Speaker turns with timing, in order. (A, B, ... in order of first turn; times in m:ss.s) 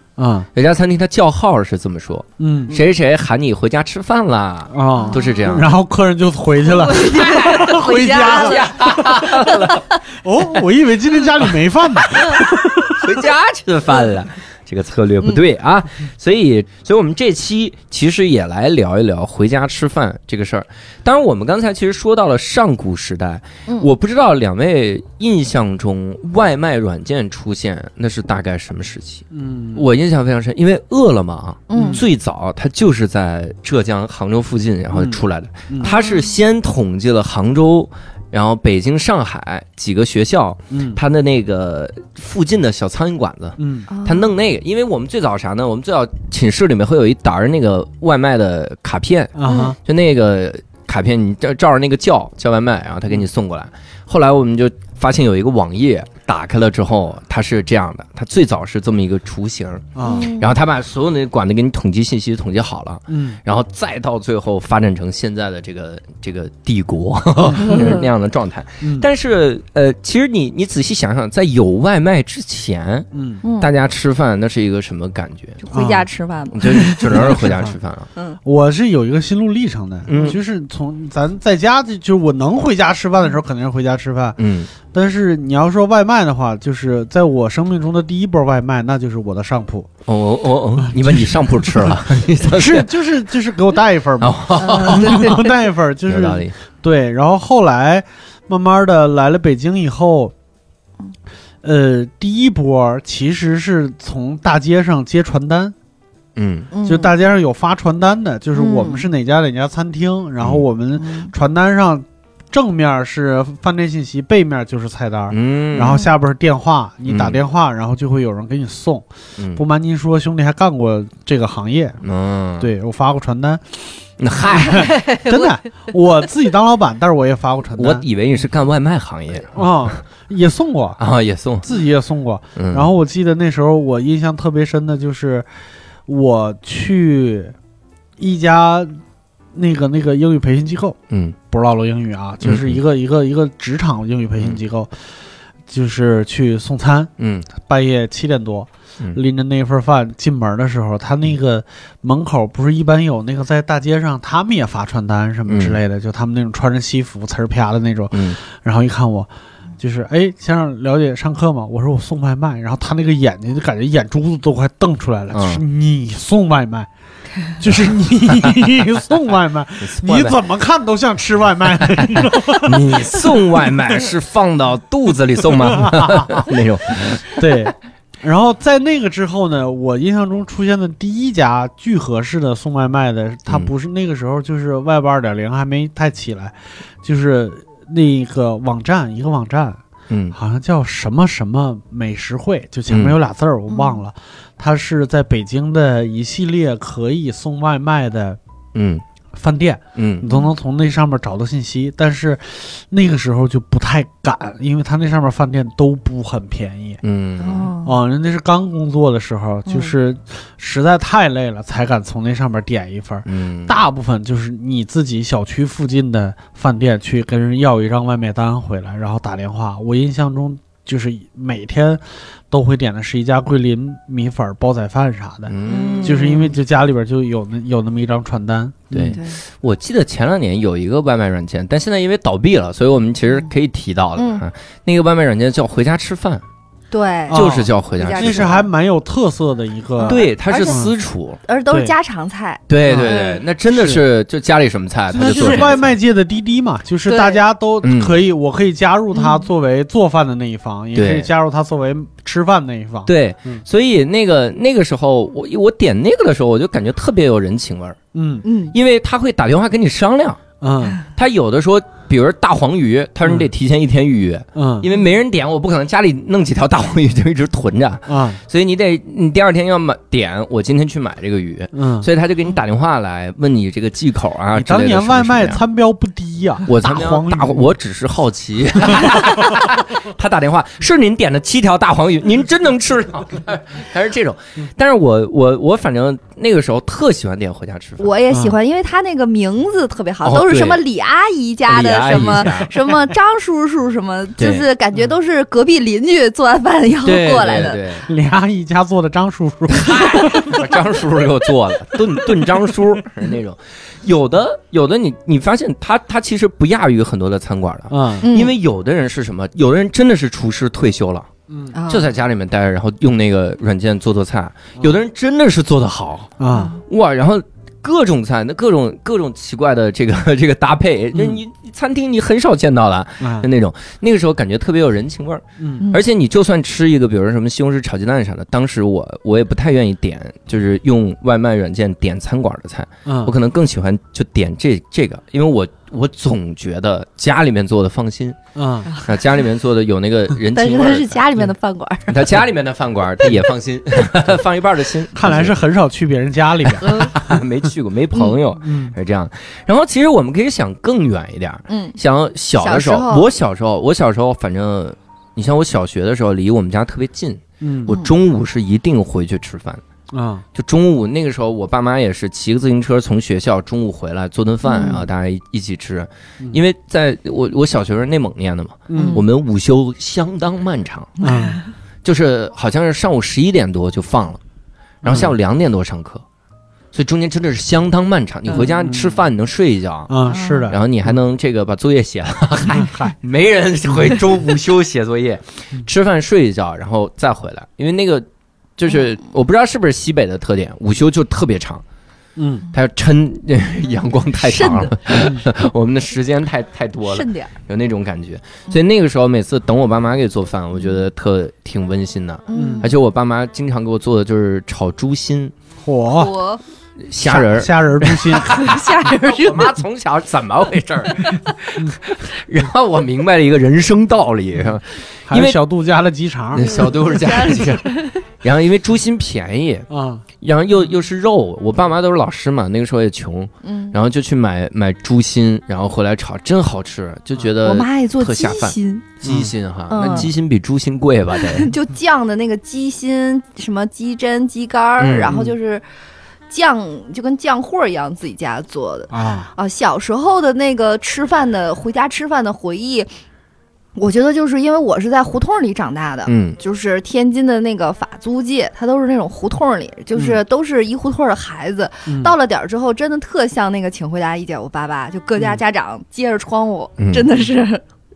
0:00.2-0:00.5 A
0:00.6-0:05.7 B
0:02.4-0:02.8 A
0:04.7-0:08.6 A
0:04.9-0:05.4 C
0:06.6-0:09.8 C
0:07.1-0:09.9 B
0:10.1-0:13.1 A
0:12.1-1:15.6 B
0:29.3-0:29.9 A
0:31.7-0:32.0 C
0:31.8-0:32.0 A
0:34.9-0:36.0 A
0:35.8-0:36.4 C
0:40.7-0:41.0 A
0:43.6-0:43.9 A
0:43.9-0:44.3 C
0:49.4-0:49.8 A
0:49.4-0:49.8 C
1:00.0-1:00.3 A
1:00.0-1:00.5 C
1:03.1-1:03.4 A
1:07.5-1:07.9 A
1:07.6-1:08.0 C
1:08.8-1:09.1 A
1:13.1-1:13.4 A
1:13.4-1:13.7 C
1:15.6-1:17.4 C
1:15.7-1:16.1 A
1:16.5-1:18.1 B
1:17.1-1:17.8 A
1:18.4-1:29.9 A
1:20.1-1:20.4 B
1:24.4-1:24.7 B
1:30.1-1:33.0 B
1:30.8-1:40.3 A
1:34.2-1:35.4 B
1:34.6-1:35.5 C
1:36.1-1:36.5 B
1:41.6-1:45.8 A
1:46.4-1:46.7 B
1:46.7-1:47.1 C
1:46.8-1:59.0 A
1:48.6-1:49.1 C
1:51.0-1:51.3 C
1:55.3-1:56.0 B
1:57.0-1:57.4 B
1:59.6-2:02.0 A
2:02.0-2:02.7 B
2:02.6-2:03.6 A
2:04.2-2:04.9 B
2:04.5-2:08.0 A
2:04.6-2:05.6 C
2:07.8-2:09.7 B
2:09.5-2:11.0 A
2:11.0-2:11.7 B
2:11.6-2:15.5 A
2:12.6-2:12.9 B
2:16.1-2:17.6 A
2:18.2-2:19.0 A
2:19.5-2:21.0 A
2:21.1-2:21.4 B
2:21.5-2:24.9 A
2:22.4-2:22.8 B
2:25.7-2:39.3 A
2:27.2-2:27.5 B
2:35.5-2:35.8 B
2:38.1-2:38.4 B
2:39.8-2:46.9 A
2:45.3-2:45.6 B
2:47.6-2:53.2 A
2:49.8-2:50.4 B
2:52.2-2:57.5 B
2:55.6-2:56.4 A
2:57.4-3:09.8 A
3:10.1-3:10.4 B
3:10.3-3:18.4 A
3:12.9-3:13.2 B
3:13.7-3:14.0 C
3:18.8-3:19.0 B
3:19.3-3:27.0 A
3:20.0-3:20.3 B
3:27.0-3:27.7 B
3:27.4-3:28.0 C
3:27.8-3:49.2 A
3:29.7-3:29.9 C
3:33.3-3:33.8 B
3:45.5-3:46.4 B
3:45.7-3:46.5 C
3:48.9-3:56.4 B
3:49.0-3:49.4 C
3:54.2-3:54.4 C
3:56.9-3:58.7 C
3:57.3-4:00.9 A
3:57.3-3:58.6 B
4:00.0-4:00.9 C
4:00.0-4:01.4 B
4:01.4-4:03.4 C
4:02.7-4:06.0 B
4:02.8-4:03.2 A
4:03.7-4:04.1 A
4:05.1-4:13.6 A
4:05.2-4:05.8 C
4:07.1-4:07.4 C
4:07.8-4:08.2 B
4:09.2-4:09.4 C
4:10.9-4:11.3 B
4:13.1-4:18.0 B
4:18.1-4:18.4 A
4:18.4-4:18.8 C
4:18.7-4:20.4 B
4:20.6-4:21.0 A
4:21.0-4:35.6 B
4:24.6-4:24.9 A
4:28.1-4:28.4 A
4:31.7-4:32.1 A
4:34.6-4:37.7 A
4:36.7-4:48.1 B
4:48.0-4:57.8 C
4:50.2-4:50.8 B
4:51.7-4:53.1 B
4:54.4-4:54.7 B
4:57.0-4:58.1 B
4:58.1-5:00.6 A
4:59.7-5:11.3 B
5:07.9-5:08.3 A
5:08.2-5:08.5 C
5:11.7-5:12.1 C
5:11.9-5:16.3 B
5:16.4-5:16.7 A
5:16.5-5:16.8 C
5:16.9-5:38.4 B
5:21.1-5:21.4 A
5:23.2-5:23.5 A
5:25.6-5:25.8 A
5:33.1-5:33.3 A
5:38.6-5:38.9 A
5:38.9-5:39.2 C
5:39.0-5:41.2 B
5:40.5-5:42.4 C
5:42.1-5:45.6 B
5:45.2-5:47.4 A
5:46.6-5:59.8 B
5:46.8-5:47.1 C
5:48.6-5:48.9 A
5:51.7-5:52.0 C
5:52.6-5:53.3 C
5:57.6-5:57.9 A
5:57.9-5:58.1 C
6:00.1-6:00.4 A
6:00.6-6:11.2 B
6:04.7-6:05.0 C
6:08.9-6:09.2 A
6:09.0-6:09.2 C
6:11.2-6:11.6 C
6:11.2-6:11.6 A
6:12.0-6:14.4 B
6:15.0-6:16.2 B
6:15.0-6:15.3 A
6:16.9-6:28.3 B
6:18.6-6:19.2 A
6:20.1-6:20.8 A
6:20.3-6:20.7 C
6:22.7-6:23.2 A
6:28.8-6:31.8 B
6:32.4-6:32.6 A
6:32.7-6:45.5 B
6:34.4-6:35.0 C
6:37.0-6:37.5 C
6:42.5-6:42.9 C
6:42.6-6:42.9 A
6:45.8-6:46.3 A
6:46.2-6:46.6 C
6:47.1-6:55.6 B
6:47.2-6:48.7 A
6:48.5-6:49.8 C
6:55.3-6:56.7 A
6:56.6-6:57.9 B
6:56.6-6:58.2 C
6:58.4-6:59.9 B
6:59.9-7:00.2 A
7:00.4-7:11.7 B
7:03.6-7:04.0 C
7:07.6-7:09.1 C
7:09.2-7:09.5 A
7:09.9-7:10.3 C
7:11.4-7:15.8 C
7:15.0-7:15.4 B
7:16.5-7:23.1 C
7:19.1-7:19.5 A
7:24.0-7:37.8 C
7:26.3-7:26.6 B
7:32.1-7:32.3 A
7:37.0-7:37.3 B